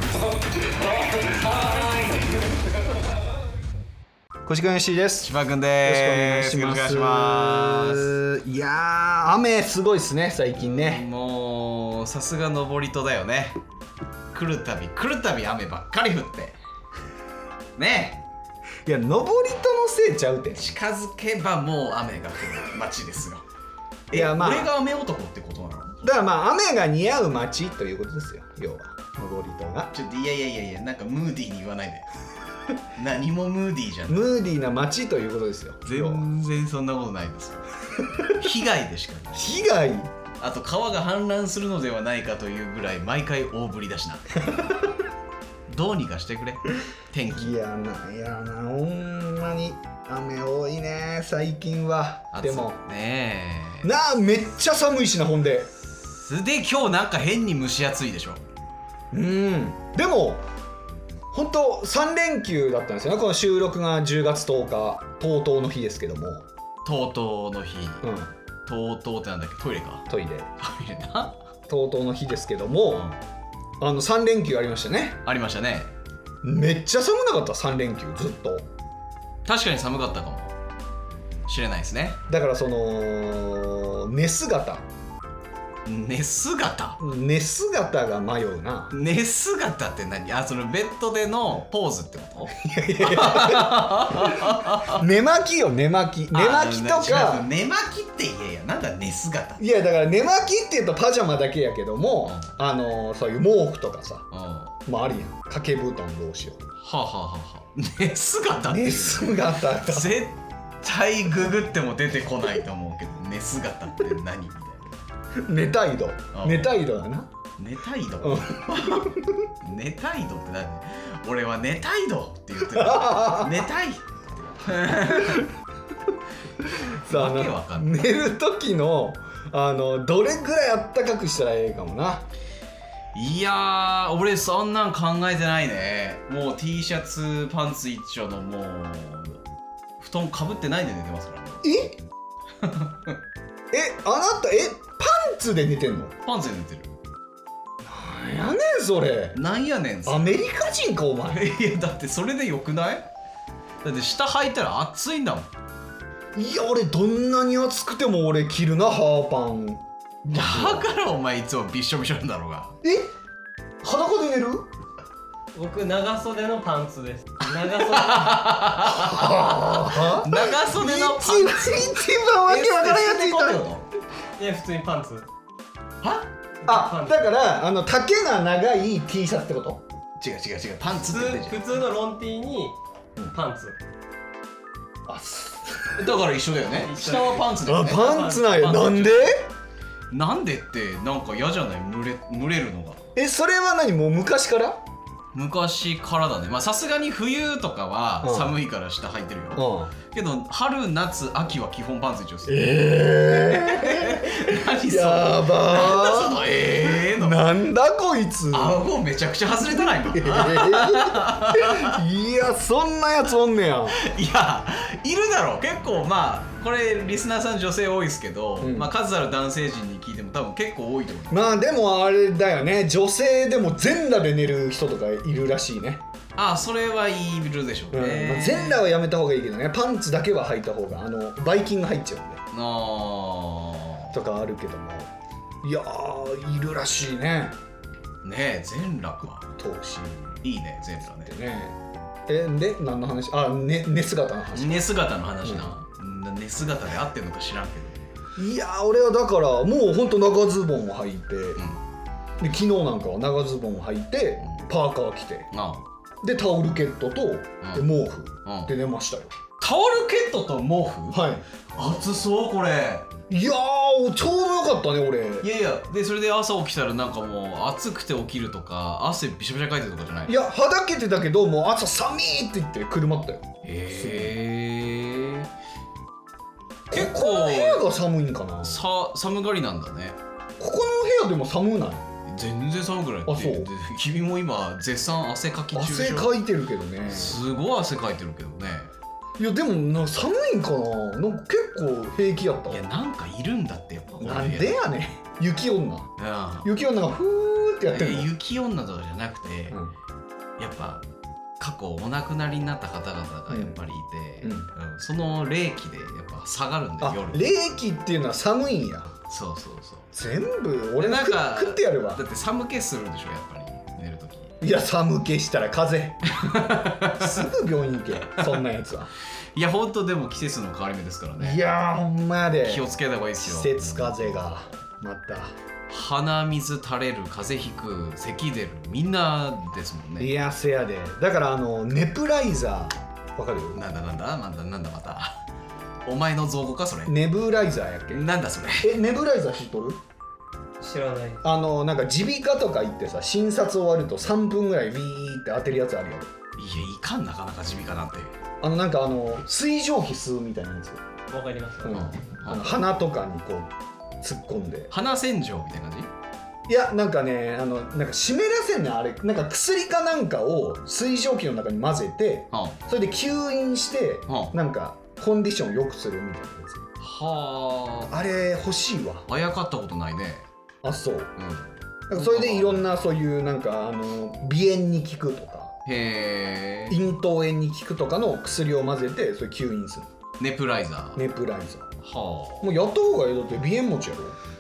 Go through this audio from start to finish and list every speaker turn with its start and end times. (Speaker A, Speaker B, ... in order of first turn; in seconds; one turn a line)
Speaker A: 1.1-2.3
Speaker B: 4.5-5.3
Speaker A: 5.2-8.2
Speaker B: 5.8-11.0
Speaker A: 10.6-13.6
Speaker A: 14.3-16.6
Speaker A: 17.8-18.2
Speaker B: 18.9-20.7
Speaker A: 20.5-23.4
Speaker A: 24.1-26.1
Speaker B: 24.1-24.7
Speaker B: 26.0-29.9
Speaker A: 29.9-32.1
Speaker A: 33.0-34.3
Speaker B: 34.1-36.3
Speaker A: 35.9-39.4
Speaker B: 39.3-40.1
Speaker A: 40.4-44.6
Speaker B: 44.4-44.8
Speaker A: 45.7-47.6
Speaker B: 47.3-52.8
Speaker A: 52.3-53.9
Speaker B: 53.8-55.7
Speaker A: 56.1-58.4
Speaker B: 59.1-60.4
Speaker B: 61.3-66.5
Speaker A: 66.8-68.1
Speaker B: 68.0-68.3
Speaker A: 68.7-70.1
Speaker B: 70.1-70.5
Speaker A: 70.6-71.4
Speaker B: 71.7-73.1
Speaker B: 73.8-75.2
Speaker A: 75.2-75.9
Speaker B: 76.4-78.7
Speaker A: 79.5-80.6
Speaker A: 81.5-82.2
Speaker B: 82.3-84.9
Speaker A: 85.9-87.0
Speaker B: 87.0-89.0
Speaker A: 88.9-95.0
Speaker B: 92.5-97.5
Speaker A: 96.3-99.6
Speaker B: 99.6-104.3
Speaker A: 104.3-104.7
Speaker B: 104.8-106.7
Speaker A: 106.8-114.9
Speaker B: 108.7-110.2
Speaker B: 115.4-117.3
Speaker A: 116.3-116.7
Speaker A: 117.6-125.5
Speaker B: 118.2-119.5
Speaker B: 122.6-123.6
Speaker B: 125.0-125.5
Speaker B: 126.6-132.3
Speaker A: 127.0-128.0
Speaker A: 133.1-139.4
Speaker A: 140.0-141.6
Speaker B: 141.6-142.0
Speaker A: 142.6-143.2
Speaker B: 143.7-146.1
Speaker A: 146.2-146.9
Speaker B: 147.8-149.4
Speaker A: 149.3-150.3
Speaker B: 150.1-151.5
Speaker A: 151.3-153.1
Speaker A: 153.8-155.5
Speaker B: 156.4-160.9
Speaker A: 160.3-162.8
Speaker B: 162.8-163.1
Speaker B: 163.8-164.7
Speaker C: 165.5-168.5
Speaker A: 167.7-173.9
Speaker B: 168.9-173.7
Speaker C: 174.4-175.3
Speaker A: 176.0-176.3
Speaker C: 176.6-177.3
Speaker B: 176.7-179.8
Speaker A: 180.2-181.6
Speaker C: 181.1-182.8
Speaker C: 183.3-183.8
Speaker B: 185.1-186.2
Speaker A: 186.0-189.4
Speaker C: 186.8-188.7
Speaker B: 187.6-189.5
Speaker A: 190.1-193.0
Speaker B: 193.2-194.8
Speaker A: 195.3-202.7
Speaker B: 198.2-198.6
Speaker B: 199.6-199.9
Speaker B: 202.5-208.8
Speaker A: 203.6-207.5
Speaker A: 208.5-212.0
Speaker B: 209.6-214.0
Speaker A: 214.0-221.5
Speaker B: 218.6-218.9
Speaker B: 221.3-226.1
Speaker A: 226.4-228.8
Speaker B: 227.9-232.4
Speaker A: 232.5-234.1
Speaker B: 234.1-235.1
Speaker B: 235.6-237.6
Speaker A: 238.2-239.6
Speaker B: 239.6-240.4
Speaker A: 240.4-241.3
Speaker B: 241.2-244.8
Speaker A: 244.5-248.1
Speaker B: 245.4-245.7
Speaker B: 248.4-251.6
Speaker B: 252.4-255.5
Speaker A: 255.5-255.9
Speaker B: 256.2-259.3
Speaker A: 257.6-257.9
Speaker A: 258.4-258.7
Speaker A: 259.6-261.2
Speaker B: 261.1-261.4
Speaker A: 261.8-263.1
Speaker B: 263.3-265.5
Speaker A: 265.4-270.3
Speaker B: 270.3-274.3
Speaker A: 273.6-275.5
Speaker B: 276.9-278.9
Speaker A: 276.9-277.8
Speaker A: 278.6-280.2
Speaker B: 280.6-282.1
Speaker A: 282.3-286.4
Speaker B: 283.3-283.7
Speaker B: 285.7-287.4
Speaker A: 287.1-288.9
Speaker B: 289.4-292.8
Speaker A: 292.7-294.8
Speaker B: 294.2-296.1
Speaker A: 296.2-296.7
Speaker B: 296.6-298.3
Speaker A: 297.9-299.8
Speaker A: 300.6-301.0
Speaker A: 301.6-307.4
Speaker B: 303.5-303.8
Speaker B: 304.4-304.7
Speaker B: 307.0-309.1
Speaker A: 309.3-310.1
Speaker B: 310.1-312.2
Speaker A: 311.0-314.6
Speaker B: 314.6-319.1
Speaker A: 316.3-317.5
Speaker A: 319.6-321.6
Speaker B: 321.4-322.9
Speaker A: 322.6-324.5
Speaker B: 323.4-325.6
Speaker A: 325.9-330.3
Speaker B: 330.2-333.8
Speaker A: 333.7-335.4
Speaker A: 336.1-337.1
Speaker B: 337.1-340.0
Speaker A: 338.1-338.9
Speaker C: 340.8-341.4
Speaker B: 341.4-346.3
Speaker A: 346.6-348.3
Speaker B: 348.6-351.0
Speaker C: 351.3-352.1
Speaker B: 351.8-353.7
Speaker A: 351.9-352.7
Speaker B: 354.2-354.9
Speaker A: 354.9-356.1
Speaker B: 356.7-366.9
Speaker A: 362.5-362.8
Speaker A: 364.3-364.6
Speaker A: 367.0-368.1
Speaker B: 368.1-369.3
Speaker A: 369.3-370.5
Speaker B: 370.8-371.4
Speaker A: 371.4-372.9
Speaker B: 372.1-375.8
Speaker A: 375.9-377.0
Speaker B: 376.9-380.1
Speaker A: 380.4-381.2
Speaker B: 381.1-381.9
Speaker A: 382.0-382.7
Speaker B: 382.6-384.4